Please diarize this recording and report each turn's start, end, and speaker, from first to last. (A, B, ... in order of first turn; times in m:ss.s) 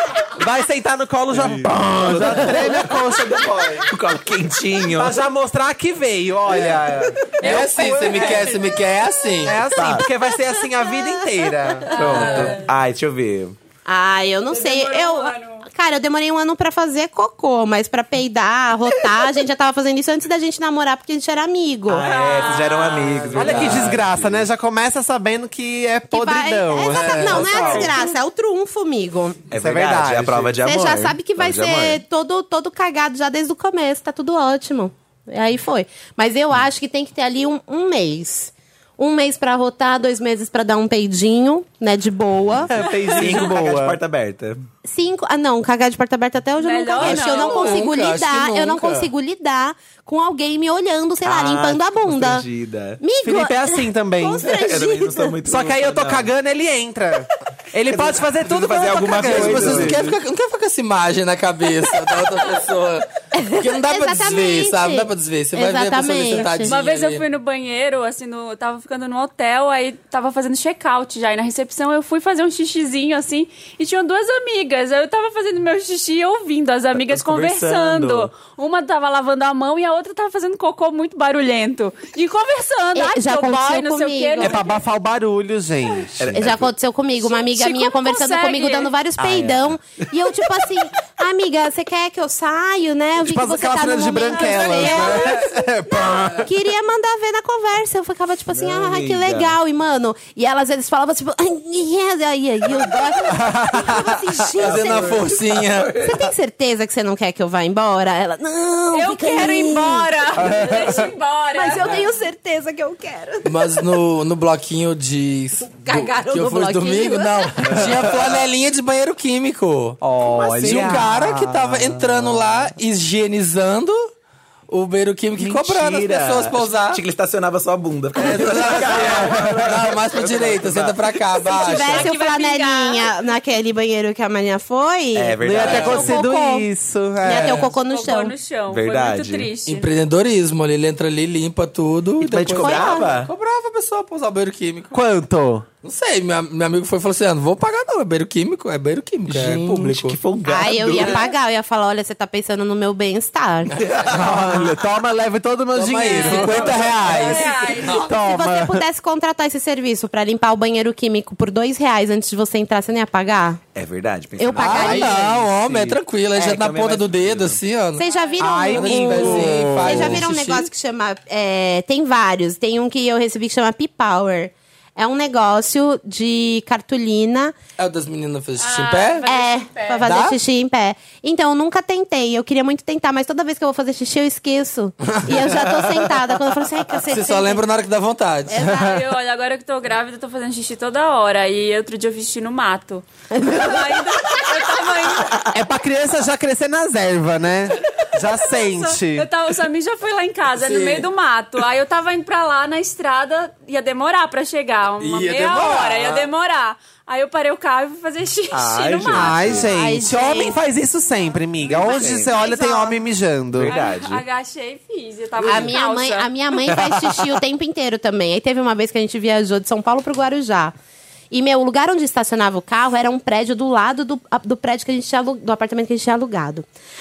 0:00.3-0:03.9 A
0:01.3-0:05.2 B
0:04.9-0:08.6 A
0:07.4-0:09.6 C
0:09.4-0:12.6 A
0:09.7-0:10.1 B
0:10.9-0:11.2 D
0:11.9-0:12.7 E
0:11.9-0:13.6 B
0:13.8-0:22.1 D
0:14.5-0:15.6 E
0:21.9-0:24.4 B
0:22.0-0:23.5 E
0:23.3-0:24.0 C
0:23.3-0:27.9 A
0:26.1-0:29.4 D
0:26.9-0:27.9 C
0:27.3-0:27.9 B
0:29.5-0:32.0 B
0:29.5-0:30.6 A
0:30.6-0:42.7 D
0:42.7-0:44.0 A
0:43.1-0:44.6 B
0:44.8-0:52.4 D
0:46.6-0:47.8 E
0:47.0-0:49.1 C
0:51.2-0:53.0 B
0:53.0-0:55.4 D
0:53.2-0:54.4 A
0:54.4-0:56.3 B
0:55.4-1:00.0 A
0:57.9-1:00.2 B
0:59.1-1:07.2 C
1:03.3-1:06.8 D
1:06.6-1:24.8 E
1:17.0-1:18.3 B
1:22.9-1:24.6 D
1:24.4-1:26.2 A
1:26.2-1:26.7 B
1:26.3-1:45.3 D
1:27.2-1:28.9 E
1:29.2-1:29.7 B
1:33.2-1:36.5 A
1:34.3-1:35.2 E
1:34.8-1:35.4 C
1:36.1-1:36.4 C
1:38.5-1:39.6 B
1:43.2-1:44.2 A
1:44.6-1:45.9 C
1:44.6-1:46.3 B
1:46.0-1:50.6 D
1:48.9-1:51.9 E
1:50.4-1:51.1 A
1:51.5-1:53.8 D
1:53.4-2:00.0 C
1:55.8-1:57.8 D
1:57.6-1:58.4 B
2:00.0-2:01.9 A
2:00.3-2:01.1 B
2:00.6-2:04.1 C
2:04.7-2:07.0 C
2:05.4-2:11.1 B
2:08.2-2:12.1 C
2:08.9-2:09.6 A
2:11.4-2:16.7 D
2:11.8-2:13.1 E
2:15.1-2:16.2 B
2:15.4-2:17.6 A
2:15.6-2:16.0 C
2:17.2-2:18.3 D
2:17.2-2:17.7 C
2:17.7-2:19.9 E
2:18.7-2:19.5 B
2:19.6-2:25.0 C
2:22.2-2:23.3 B
2:22.6-2:23.1 D
2:24.9-2:25.6 A
2:25.8-2:30.2 C
2:29.3-2:31.3 B
2:30.4-2:33.8 D
2:33.9-2:34.6 B
2:34.0-2:38.8 A
2:35.7-2:38.0 C
2:36.4-2:36.7 B
2:37.0-2:38.1 E
2:38.1-2:43.6 D
2:43.7-2:47.6 B
2:44.4-2:45.2 D
2:44.6-2:48.0 C
2:48.0-2:57.6 D
2:48.0-2:48.4 E
2:48.4-2:50.2 A
2:48.7-2:50.7 C
2:57.8-2:59.3 C
2:58.6-3:00.0 E
2:59.2-3:07.6 D
3:00.0-3:00.4 C
3:05.1-3:06.0 C
3:07.1-3:08.8 C
3:08.5-3:09.0 D
3:08.6-3:15.4 E
3:13.3-3:13.8 D
3:15.5-3:19.3 A
3:18.4-3:30.4 E
3:20.6-3:21.1 C
3:25.0-3:26.3 C
3:28.5-3:29.7 B
3:29.1-3:33.7 A
3:29.5-3:30.6 D
3:31.6-3:32.3 B
3:31.8-3:33.0 E
3:33.5-3:34.2 B
3:33.7-3:36.3 E
3:35.4-3:40.7 D
3:36.7-3:37.1 B
3:41.3-3:46.6 D